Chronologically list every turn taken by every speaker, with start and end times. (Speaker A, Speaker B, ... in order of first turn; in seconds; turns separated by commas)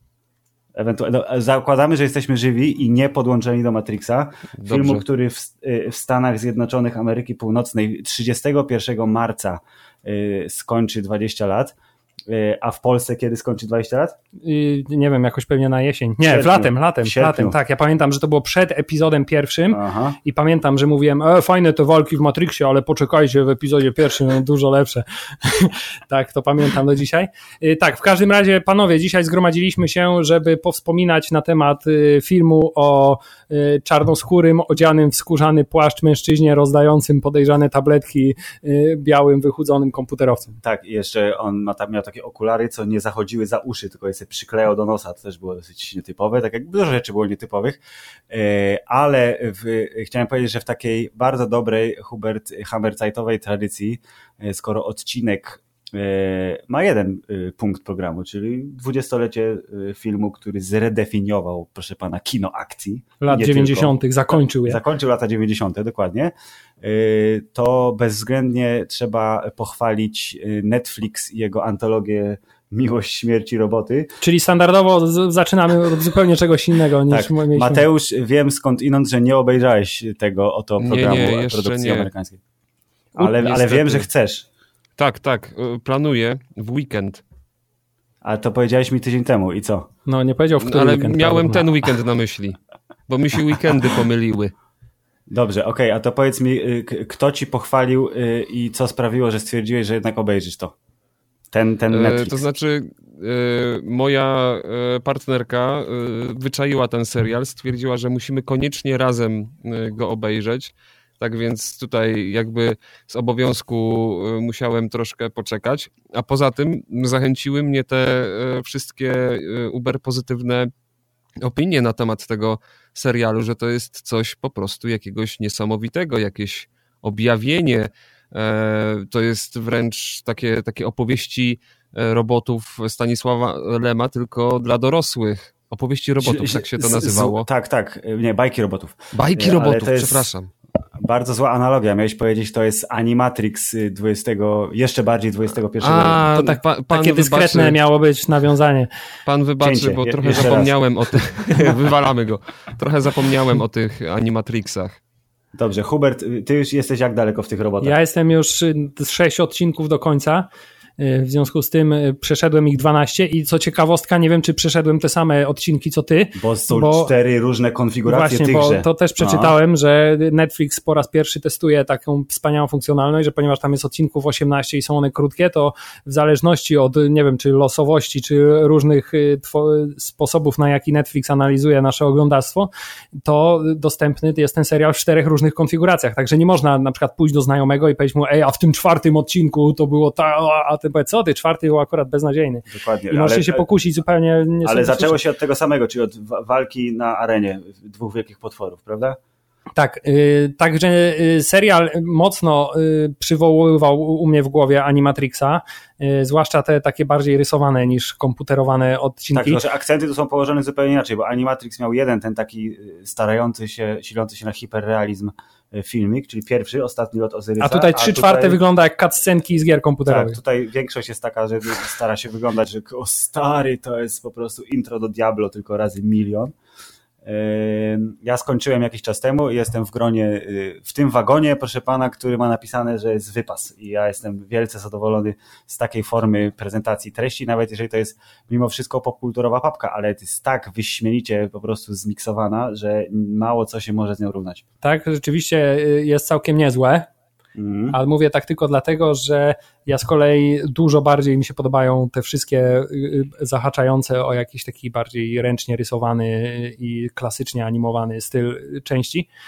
Speaker A: 0.7-11.7, Speaker B: 4.6-5.0, Speaker A: 12.3-14.2, Speaker C: 14.4-40.6, Speaker A: 16.2-17.6, Speaker A: 19.7-20.2, Speaker A: 40.6-74.1, Speaker C: 63.2-64.8, Speaker C: 74.2-77.8, Speaker A: 77.1-82.4, Speaker B: 80.8-82.1, Speaker A: 83.2-84.4, Speaker B: 83.2-84.1, Speaker B: 85.0-87.2, Speaker A: 88.2-89.9, Speaker C: 90.1-91.6, Speaker B: 90.6-94.5, Speaker A: 95.3-100.7, Speaker A: 101.5-102.4, Speaker B: 101.9-120.7, Speaker B: 121.4-137.5, Speaker A: 136.2-140.3, Speaker B: 139.1-140.5, Speaker A: 141.0-146.3, Speaker B: 145.8-147.8, Speaker C: 146.3-148.9, Speaker B: 149.2-155.0, Speaker A: 149.6-151.8, Speaker A: 155.5-157.9, Speaker C: 157.8-160.5, Speaker C: 161.0-167.1, Speaker A: 166.3-169.5, Speaker C: 168.1-182.7, Speaker C: 183.2-195.2, Speaker A: 192.7-193.7, Speaker A: 194.6-199.2, Speaker C: 199.8-209.6, Speaker A: 209.3-218.6, Speaker C: 217.6-220.3, Speaker A: 220.1-226.5, Speaker A: 227.2-244.6, Speaker C: 244.8-247.1, Speaker A: 247.6-248.0, Speaker C: 247.9-259.3